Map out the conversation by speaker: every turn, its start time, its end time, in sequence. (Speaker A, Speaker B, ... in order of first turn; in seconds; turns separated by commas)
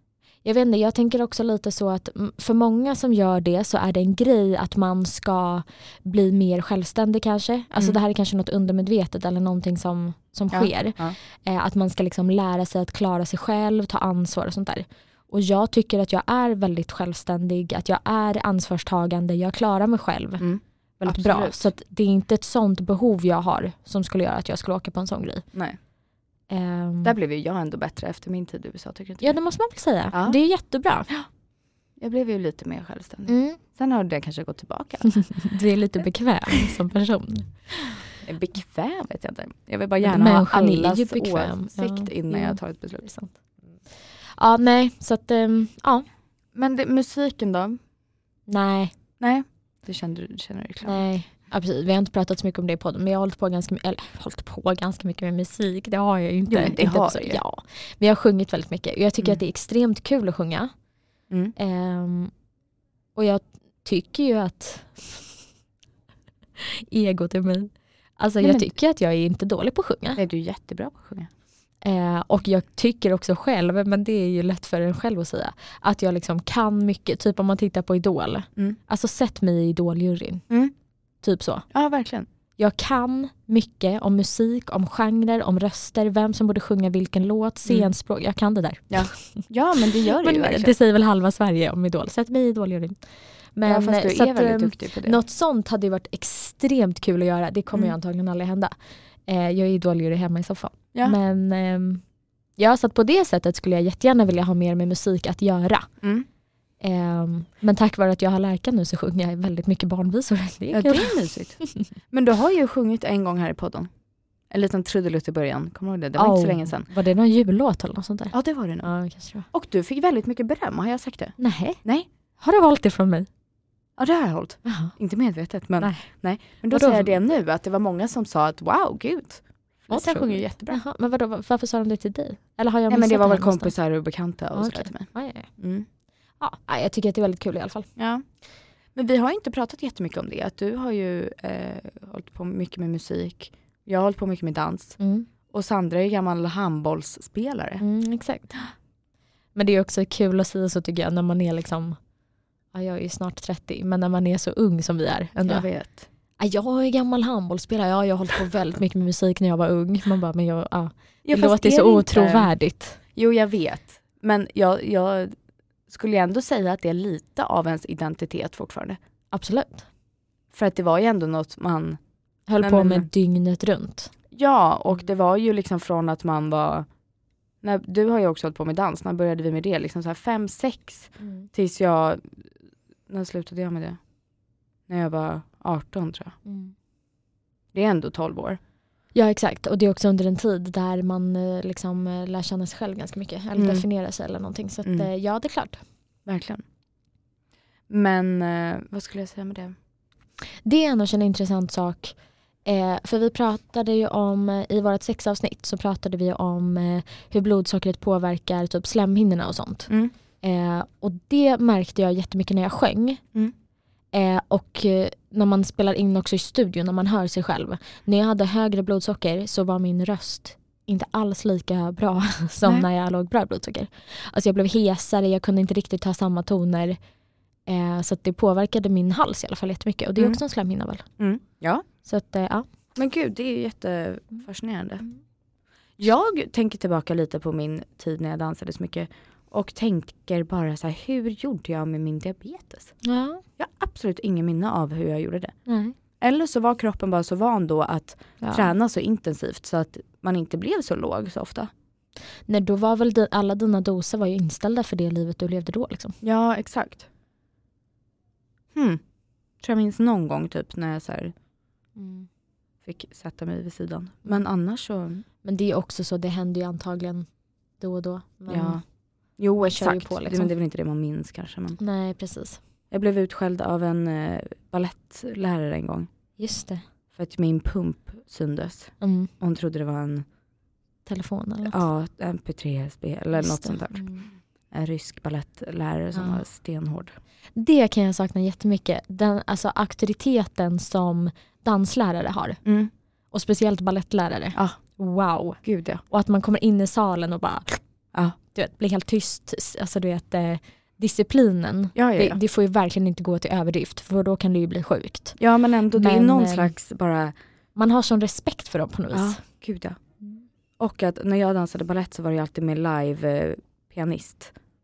Speaker A: 0.4-20.4, Speaker B: 10.5-11.2, Speaker B: 20.4-21.7, Speaker A: 21.0-25.4, Speaker A: 26.5-27.1, Speaker B: 27.0-29.4, Speaker A: 29.2-31.1, Speaker B: 30.1-30.4, Speaker B: 32.0-35.5, Speaker A: 33.3-33.6, Speaker A: 35.2-37.5, Speaker B: 38.2-43.1, Speaker A: 40.0-43.3, Speaker A: 44.4-46.1, Speaker B: 46.5-47.8, Speaker A: 48.5-48.9, Speaker B: 49.2-51.0, Speaker A: 50.8-60.7, Speaker B: 56.5-57.4, Speaker A: 61.6-62.3, Speaker A: 63.1-65.3, Speaker A: 66.6-70.2, Speaker B: 68.4-68.7, Speaker B: 70.2-71.3, Speaker A: 71.8-80.4, Speaker A: 81.2-81.7, Speaker B: 81.7-82.3, Speaker A: 82.6-89.5, Speaker B: 87.7-87.9, Speaker B: 88.9-90.7, Speaker A: 90.0-93.0, Speaker A: 93.6-98.7, Speaker B: 93.7-95.2, Speaker A: 99.3-102.0, Speaker A: 102.6-105.9, Speaker A: 106.8-111.9, Speaker B: 110.7-113.9, Speaker B: 114.5-116.9, Speaker A: 116.2-119.5, Speaker B: 118.3-118.9, Speaker B: 119.5-122.1, Speaker A: 121.4-121.8, Speaker A: 122.4-123.3, Speaker B: 124.0-130.8, Speaker A: 124.7-125.0, Speaker A: 125.8-126.1, Speaker A: 126.7-127.1, Speaker A: 129.9-133.7, Speaker B: 132.9-135.9, Speaker A: 134.6-135.5, Speaker A: 136.4-137.9, Speaker B: 138.0-138.2, Speaker B: 138.9-145.0, Speaker A: 145.0-145.3, Speaker B: 145.5-147.8, Speaker A: 147.8-148.7, Speaker A: 149.6-152.0, Speaker A: 152.7-155.7, Speaker B: 155.4-156.1, Speaker A: 156.4-163.0, Speaker B: 161.2-162.5, Speaker B: 163.2-165.3, Speaker B: 165.9-169.0, Speaker A: 169.3-169.9, Speaker B: 170.5-172.0, Speaker A: 172.5-174.1, Speaker B: 172.6-173.1, Speaker B: 174.3-176.9, Speaker B: 177.6-182.4, Speaker A: 181.2-181.5, Speaker B: 183.1-184.0, Speaker B: 184.9-186.4, Speaker A: 186.4-186.7, Speaker B: 187.7-188.6, Speaker A: 189.1-195.8, Speaker B: 193.6-193.8, Speaker B: 196.3-196.6, Speaker B: 197.9-199.8, Speaker A: 200.7-209.9, Speaker A: 210.4-213.2, Speaker A: 214.1-227.0, Speaker A: 227.7-231.1, Speaker B: 231.2-231.8, Speaker A: 232.1-232.7, Speaker B: 232.9-235.1, Speaker B: 236.0-242.9, Speaker A: 243.0-243.4, Speaker B: 243.6-245.6, Speaker A: 245.7-245.9, Speaker B: 246.2-251.7, Speaker A: 248.4-248.7, Speaker A: 252.5-256.2, Speaker B: 256.2-257.1, Speaker B: 258.7-259.0, Speaker B: 259.6-261.3, Speaker A: 262.0-262.3, Speaker B: 262.8-265.2, Speaker A: 265.4-267.3, Speaker A: 267.8-268.8, Speaker B: 268.5-268.8, Speaker B: 269.4-271.8, Speaker A: 269.6-270.5, Speaker A: 271.8-272.6, Speaker B: 272.9-276.1, Speaker A: 276.4-276.8, Speaker B: 277.1-280.2, Speaker A: 279.0-279.3, Speaker A: 281.1-281.8, Speaker B: 281.7-284.1, Speaker A: 283.4-284.3, Speaker B: 284.7-287.2, Speaker A: 286.1-286.4, Speaker A: 287.6-292.6, Speaker B: 292.6-292.9, Speaker A: 293.3-297.8, Speaker B: 295.6-296.0, Speaker A: 298.5-305.4, Speaker B: 301.9-302.4, Speaker B: 305.4-307.3, Speaker A: 305.9-306.7, Speaker A: 307.8-309.4, Speaker B: 309.1-310.0, Speaker B: 310.8-314.5